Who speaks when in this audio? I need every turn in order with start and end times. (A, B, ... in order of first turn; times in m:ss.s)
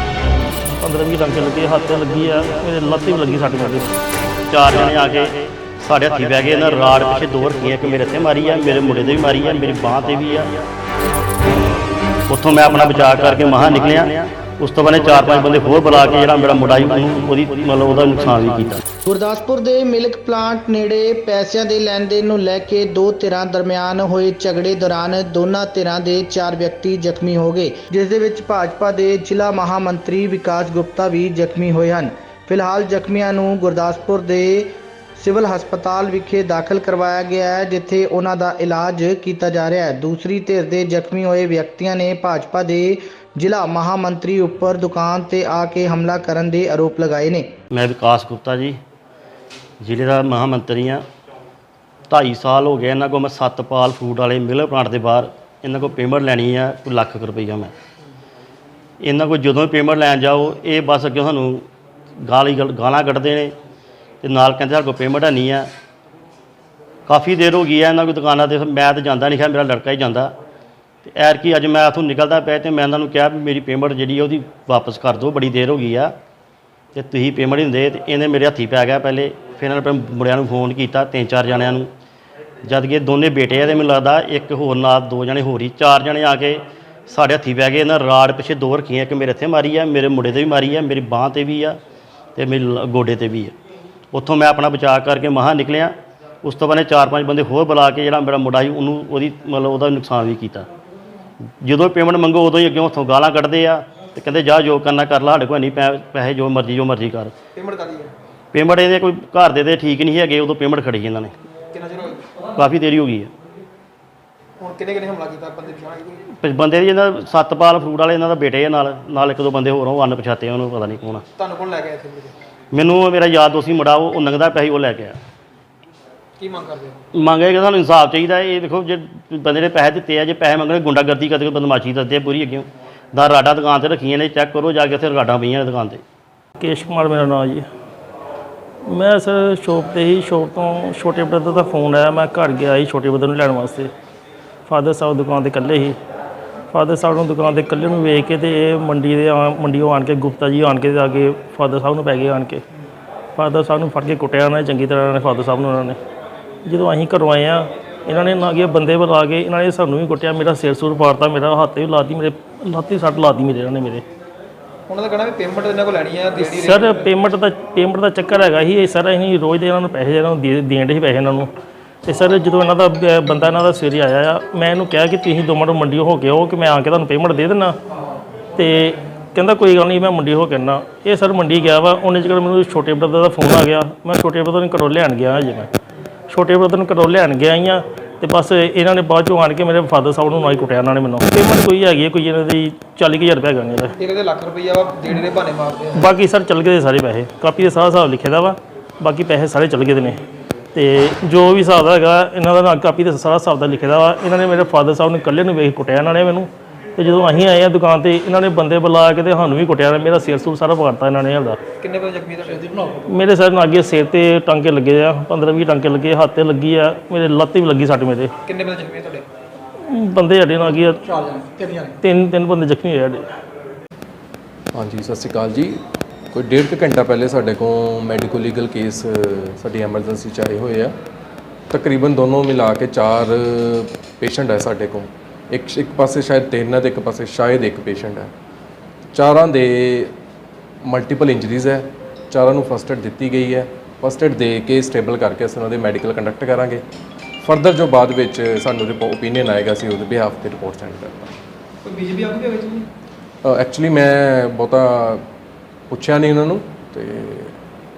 0:00.7-0:04.0 A
0:04.5-0:10.5 B
0:12.3-0:18.8 B
0:19.0-0:47.5 C
0:47.7-0:48.8 B
0:49.8-0:51.0 B
0:52.1-0:57.7 B
0:59.0-1:01.7 B
1:02.2-1:03.6 B
1:04.2-1:05.7 B
1:07.1-1:10.3 B
1:11.0-1:16.1 B
1:17.0-1:21.9 B
1:22.6-1:31.8 B
1:32.4-1:33.6 B
1:34.1-1:40.7 B
1:41.6-1:47.3 B
1:47.6-1:48.1 D
1:48.5-1:51.3 B
1:51.7-1:52.2 D
1:52.6-1:53.3 B
1:54.6-1:56.2 D
1:56.4-2:01.2 B
2:01.4-2:02.3 D
2:02.7-2:05.2 B
2:06.4-2:07.0 D
2:07.1-2:16.0 B
2:16.6-2:17.7 A
2:18.9-2:23.9 A
2:24.7-2:26.0 A
2:26.7-2:32.6 A
2:33.4-2:36.0 A
2:36.7-2:44.0 A
2:44.9-2:46.9 D
2:46.4-2:51.5 A
2:52.0-2:57.8 A
2:58.5-3:05.7 A
3:06.3-3:14.0 A
3:14.0-3:16.0 D
3:15.9-3:20.2 A
3:20.7-3:31.6 A
3:31.8-3:32.7 D
3:33.0-3:38.3 A
3:38.4-3:39.2 D
3:39.8-3:41.0 A
3:42.0-3:43.3 A
3:44.7-3:45.8 E
3:46.3-3:50.9 E
3:51.7-3:58.3 E
3:59.1-4:00.1 E
4:00.8-4:06.8 E
4:07.4-4:11.3 E
4:11.8-4:12.8 D
4:13.4-4:15.2 E
4:15.9-4:17.5 E